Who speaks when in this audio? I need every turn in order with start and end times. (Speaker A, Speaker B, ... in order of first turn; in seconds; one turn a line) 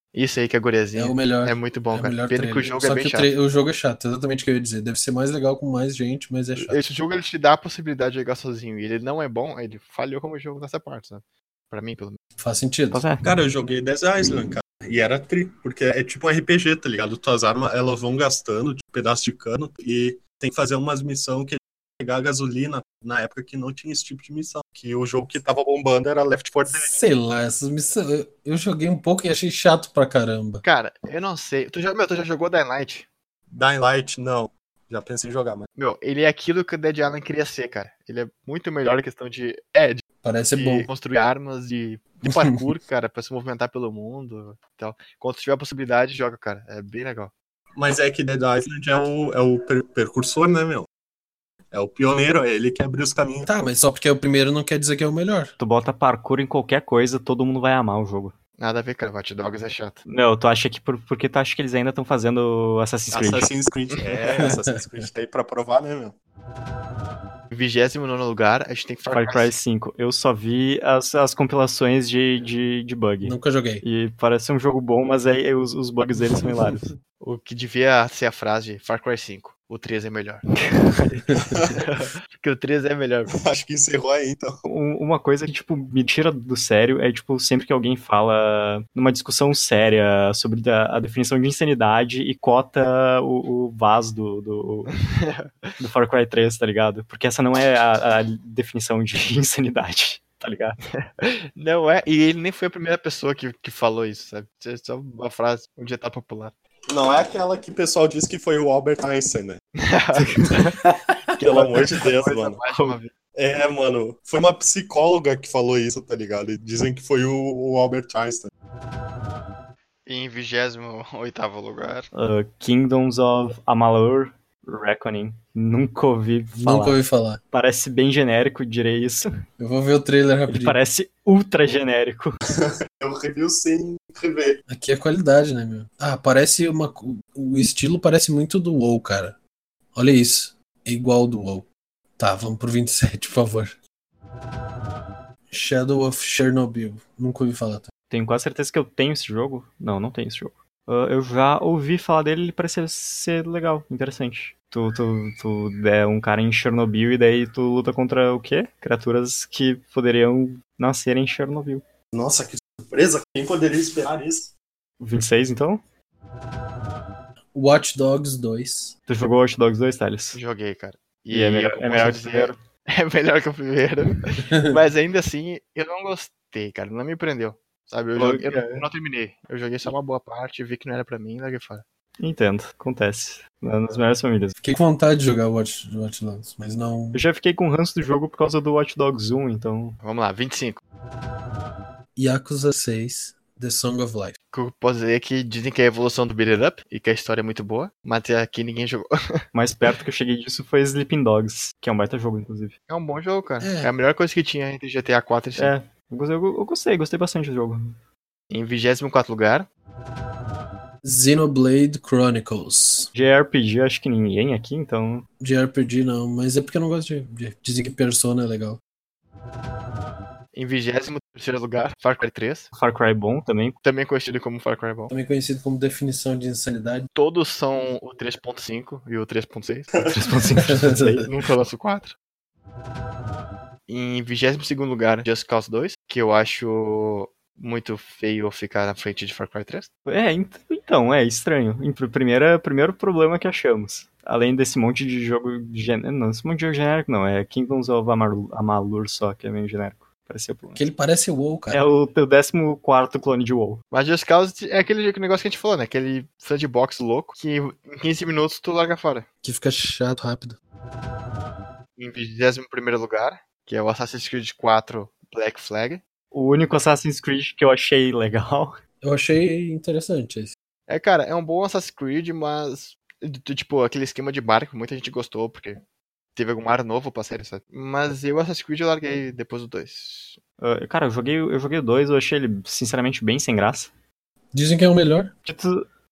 Speaker A: 0.1-3.3
Speaker B: 0.9-6.8
Speaker A: 6.5-12.2
Speaker B: 12.4-13.0
Speaker C: 12.9-13.2
Speaker D: 13.2-27.0
Speaker B: 26.7-30.6
Speaker A: 30.6-33.0
Speaker D: 33.5-35.7
Speaker A: 35.8-47.3
Speaker B: 40.2-40.9
Speaker B: 42.2-42.6
Speaker D: 47.7-50.9
Speaker D: 51.7-53.5
Speaker B: 53.5-55.5
Speaker C: 55.6-58.3
Speaker A: 58.6-60.0
Speaker C: 60.0-63.5
Speaker D: 63.1-66.2
Speaker A: 64.0-64.5
Speaker B: 64.4-65.1
Speaker A: 67.5-69.5
Speaker C: 69.1-76.9
Speaker B: 73.2-73.8
Speaker B: 76.3-76.8
Speaker A: 77.2-80.5
Speaker B: 81.3-81.6
Speaker D: 81.5-81.8
Speaker A: 81.7-83.3
Speaker D: 83.4-84.6
Speaker C: 84.7-95.0
Speaker A: 95.0-95.7
Speaker C: 95.8-100.8
Speaker A: 101.0-106.5
Speaker D: 106.9-109.6
Speaker A: 109.8-110.8
Speaker D: 111.4-112.6
Speaker A: 111.4-113.1
Speaker C: 112.7-112.9
Speaker D: 113.3-118.5
Speaker A: 120.0-122.1
Speaker C: 122.1-127.0
Speaker B: 126.5-127.4
Speaker C: 127.5-129.3
Speaker B: 129.6-130.8
Speaker C: 130.5-132.4
Speaker D: 132.6-134.6
Speaker B: 134.7-139.3
Speaker B: 139.9-143.7
Speaker B: 145.5-147.9
Speaker C: 148.1-161.8
Speaker D: 162.1-164.5
Speaker C: 165.0-165.8
Speaker B: 167.5-168.9
Speaker C: 169.1-170.4
Speaker A: 170.3-181.8
Speaker C: 171.3-172.6
Speaker B: 174.4-174.8
Speaker C: 178.2-178.8
Speaker C: 182.2-184.5
Speaker B: 184.6-187.2
Speaker C: 187.1-190.0
Speaker A: 190.0-190.8
Speaker B: 192.2-194.3
Speaker A: 194.5-199.1
Speaker C: 199.5-202.7
Speaker A: 202.9-205.7
Speaker B: 203.6-203.9
Speaker C: 205.6-207.9
Speaker A: 208.5-209.7
Speaker B: 211.0-213.1
Speaker C: 213.1-215.2
Speaker B: 215.4-218.8
Speaker A: 220.5-222.7
Speaker C: 222.7-223.8
Speaker A: 223.8-225.1
Speaker B: 225.1-227.1
Speaker A: 227.1-229.9
Speaker D: 229.9-230.2
Speaker C: 230.1-231.3
Speaker B: 230.6-231.2
Speaker A: 231.2-232.1
Speaker A: 233.9-239.9
Speaker C: 240.1-250.8
Speaker B: 250.7-251.8
Speaker C: 251.7-253.8
Speaker A: 253.9-259.2
Speaker B: 259.4-260.6
Speaker A: 262.0-266.0
Speaker C: 266.3-268.8
Speaker B: 269.0-270.5
Speaker A: 270.9-275.8
Speaker A: 276.4-280.4
Speaker C: 280.6-283.9
Speaker B: 284.5-285.3
Speaker C: 285.4-285.8